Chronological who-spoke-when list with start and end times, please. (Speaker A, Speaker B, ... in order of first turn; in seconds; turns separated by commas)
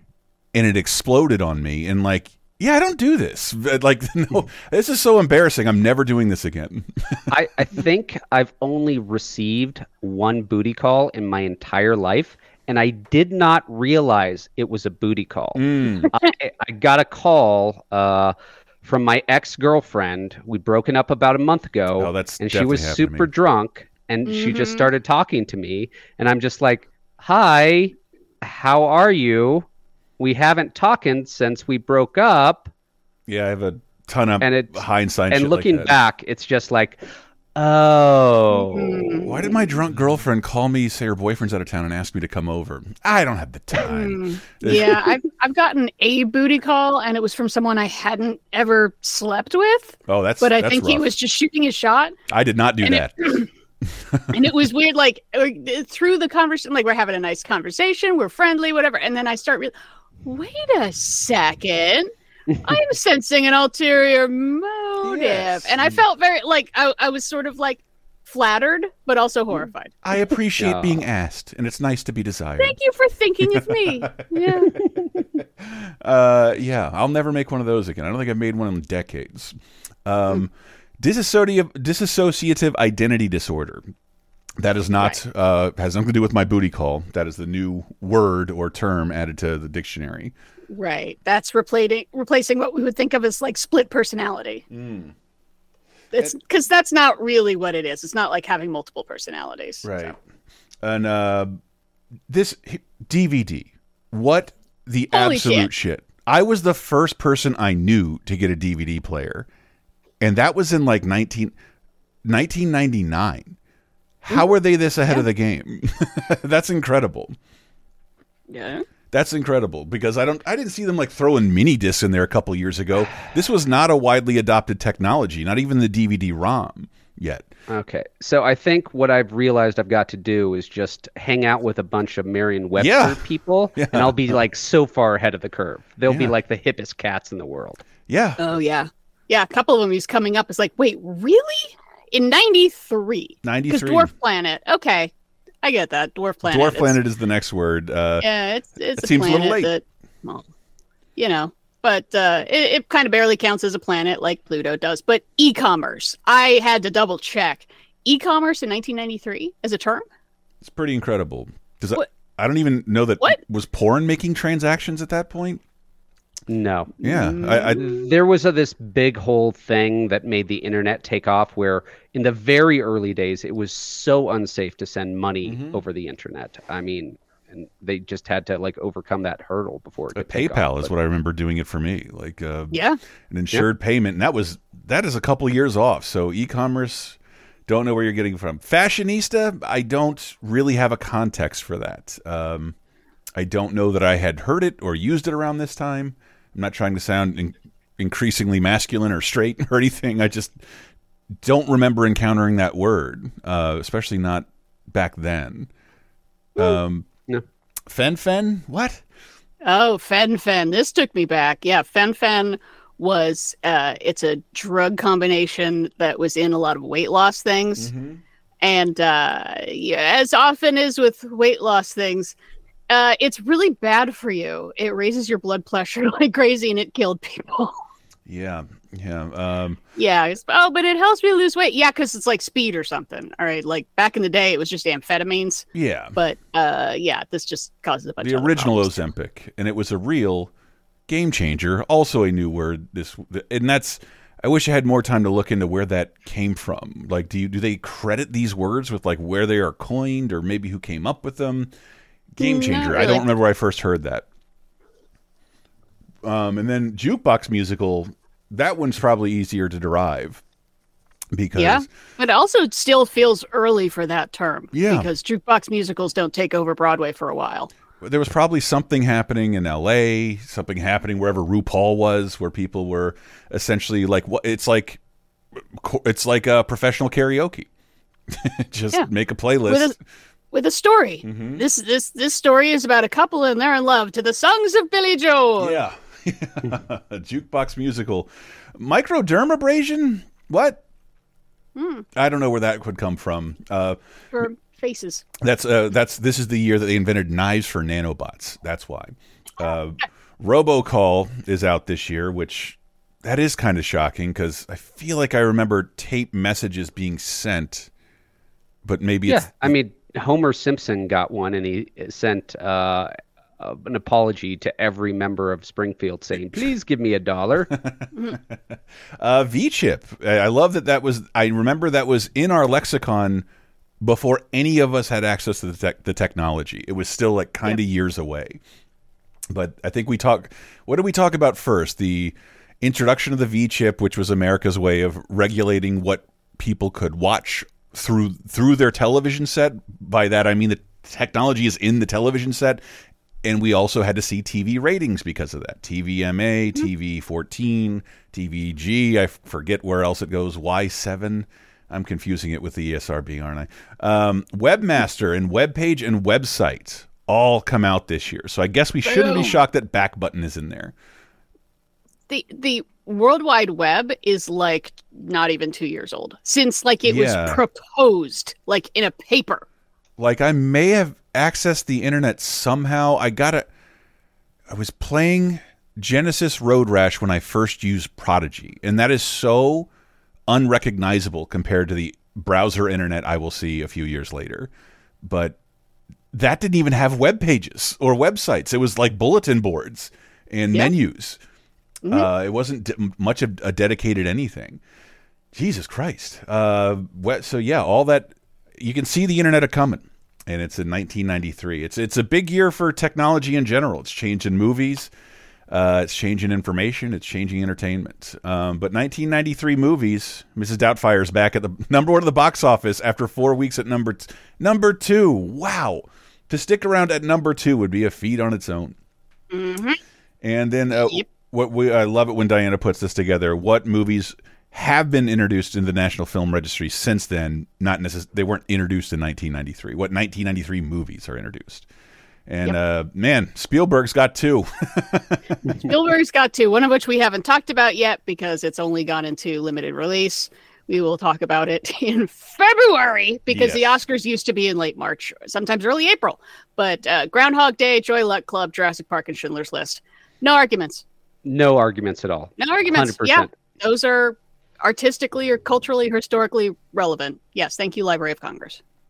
Speaker A: 0.5-7.3, Speaker B: 7.3-29.7, Speaker A: 15.6-16.1, Speaker A: 22.0-23.3, Speaker C: 24.2-24.9, Speaker B: 30.2-32.7, Speaker A: 33.3-35.9, Speaker B: 34.4-37.0, Speaker B: 37.6-39.2, Speaker C: 38.6-39.6, Speaker A: 39.2-45.1, Speaker C: 43.7-52.1, Speaker A: 50.1-51.1, Speaker A: 52.3-53.3, Speaker C: 52.8-53.5, Speaker C: 54.3-62.1, Speaker C: 62.6-70.0, Speaker A: 65.0-66.0, Speaker A: 70.0-72.8, Speaker B: 70.6-71.0, Speaker C: 72.6-74.7, Speaker A: 73.4-79.5, Speaker A: 80.0-83.8, Speaker A: 84.6-90.3, Speaker C: 90.7-94.6, Speaker A: 94.7-95.1, Speaker C: 96.1-100.2, Speaker A: 99.8-100.2, Speaker A: 100.8-101.6, Speaker A: 102.3-109.5, Speaker C: 105.1-105.7, Speaker A: 110.2-111.5, Speaker A: 112.2-113.6, Speaker A: 114.2-117.4, Speaker C: 118.5-118.9, Speaker A: 119.1-127.5, Speaker B: 127.7-137.8, Speaker A: 132.8-133.2, Speaker A: 133.8-134.3, Speaker A: 136.1-136.3, Speaker A: 138.1-138.4, Speaker C: 138.4-145.1, Speaker A: 143.4-144.1, Speaker C: 145.6-147.0, Speaker A: 146.5-148.2, Speaker C: 148.2-150.5, Speaker A: 149.0-149.7, Speaker C: 151.2-160.1, Speaker A: 160.6-165.6, Speaker B: 166.5-167.0, Speaker C: 167.0-168.0, Speaker A: 167.0-167.8, Speaker B: 167.8-180.9, Speaker A: 175.4-175.8, Speaker A: 180.1-182.8, Speaker C: 182.7-183.0, Speaker A: 183.3-192.7, Speaker A: 193.4-200.6, Speaker A: 201.4-205.7, Speaker A: 206.6-207.1, Speaker A: 207.9-209.0, Speaker C: 209.6-217.9, Speaker A: 217.8-218.2, Speaker C: 218.6-222.4, Speaker C: 222.9-227.8, Speaker A: 228.3-229.8, Speaker C: 230.0-239.1, Speaker A: 235.7-236.2, Speaker A: 238.2-240.5, Speaker A: 241.1-251.7, Speaker A: 252.3-254.2, Speaker C: 252.4-253.2, Speaker A: 256.2-260.4, Speaker A: 261.3-261.9, Speaker C: 261.6-267.7, Speaker A: 264.7-265.1, Speaker A: 268.0-275.0, Speaker A: 275.7-277.7, Speaker A: 278.3-279.9, Speaker C: 279.7-279.9, Speaker C: 280.5-285.8, Speaker A: 281.2-281.6, Speaker A: 285.6-290.8, Speaker C: 291.8-292.1, Speaker A: 292.1-294.0, Speaker C: 294.3-295.2, Speaker A: 295.4-307.9, Speaker A: 308.9-309.7, Speaker B: 309.3-317.7, Speaker A: 317.8-323.5, Speaker A: 324.0-328.6, Speaker A: 329.5-342.8, Speaker A: 343.4-360.9, Speaker C: 359.0-359.6, Speaker C: 362.3-369.7, Speaker A: 367.1-367.6, Speaker A: 370.2-373.7, Speaker A: 374.7-379.9, Speaker A: 380.5-384.7, Speaker A: 385.2-385.6, Speaker A: 386.3-391.4, Speaker C: 392.0-392.3, Speaker A: 392.1-394.8, Speaker A: 395.5-405.1, Speaker A: 405.7-418.9, Speaker C: 419.5-420.0, Speaker A: 420.4-431.9, Speaker C: 420.9-421.2, Speaker A: 432.5-435.8, Speaker C: 435.9-451.0, Speaker A: 443.5-444.0, Speaker B: 451.4-453.5, Speaker C: 452.6-458.8